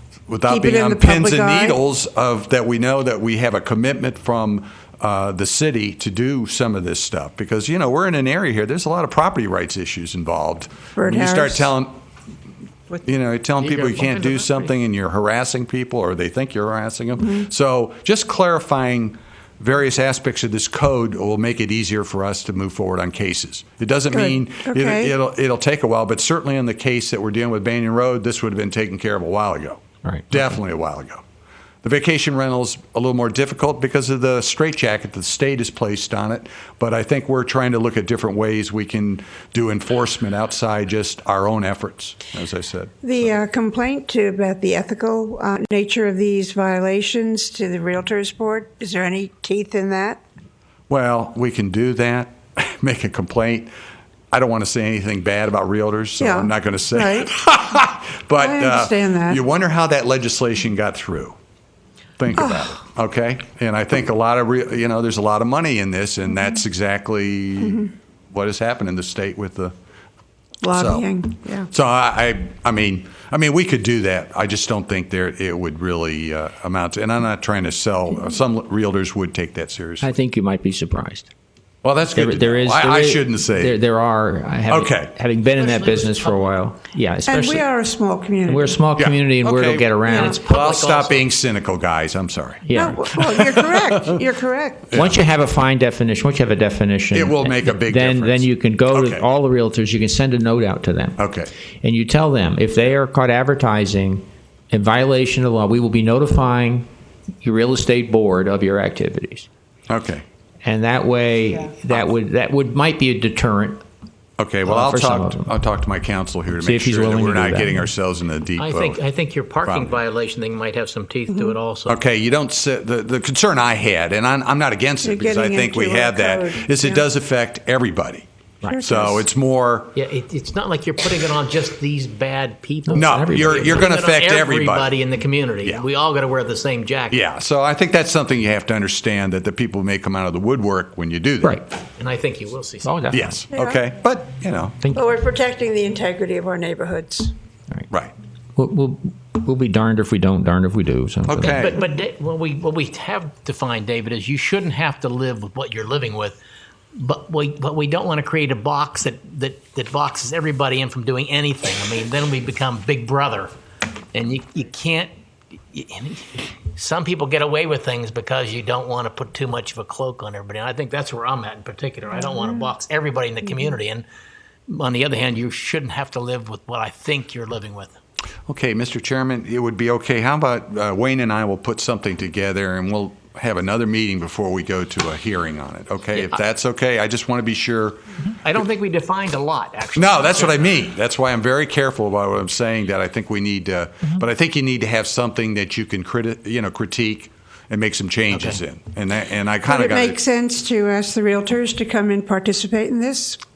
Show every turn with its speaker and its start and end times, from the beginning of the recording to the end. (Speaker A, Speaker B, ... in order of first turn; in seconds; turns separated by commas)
Speaker A: 0.3-12.0, Speaker B: 0.5-1.8, Speaker B: 11.0-11.7, Speaker A: 13.0-31.2, Speaker C: 13.6-14.7, Speaker B: 24.1-25.1, Speaker D: 30.0-30.5, Speaker A: 31.8-43.4, Speaker B: 43.0-50.2, Speaker A: 50.9-53.7, Speaker A: 54.3-61.4, Speaker B: 56.2-57.4, Speaker B: 58.4-59.4, Speaker A: 62.2-69.7, Speaker B: 62.4-62.7, Speaker B: 67.6-67.9, Speaker B: 70.6-71.7, Speaker A: 70.7-71.1, Speaker A: 71.7-80.1, Speaker D: 80.0-81.3, Speaker A: 81.8-83.8, Speaker D: 82.1-87.7, Speaker A: 84.7-85.1, Speaker C: 85.5-86.6, Speaker B: 87.3-88.8, Speaker D: 88.5-90.4, Speaker A: 89.0-94.1, Speaker B: 90.0-90.3, Speaker C: 90.1-91.3, Speaker D: 92.7-93.0, Speaker B: 92.7-94.9, Speaker A: 94.9-95.2, Speaker D: 94.9-101.2, Speaker A: 97.1-99.3, Speaker A: 101.2-101.5, Speaker D: 101.8-106.9, Speaker D: 107.4-109.5, Speaker A: 109.9-110.2, Speaker D: 110.6-113.8, Speaker A: 114.4-119.0, Speaker D: 114.7-115.5, Speaker D: 116.6-117.8, Speaker C: 118.6-122.0, Speaker A: 119.6-120.0, Speaker B: 121.3-121.5, Speaker A: 121.9-128.3, Speaker B: 125.0-127.0, Speaker B: 128.6-129.2, Speaker A: 128.8-130.0, Speaker C: 129.9-137.2, Speaker D: 132.9-133.9, Speaker A: 132.9-134.9, Speaker A: 137.1-141.6, Speaker C: 142.0-143.0, Speaker D: 142.8-143.4, Speaker A: 143.1-144.8, Speaker B: 143.5-143.8, Speaker B: 144.9-147.3, Speaker A: 147.9-148.1, Speaker D: 148.6-151.7, Speaker A: 151.3-151.8, Speaker C: 151.5-156.4, Speaker C: 156.9-163.5, Speaker C: 164.1-165.1, Speaker C: 165.7-174.1, Speaker C: 174.7-178.0, Speaker A: 178.5-188.0, Speaker C: 188.4-190.8, Speaker A: 190.0-200.2, Speaker C: 198.3-198.6, Speaker B: 199.7-203.4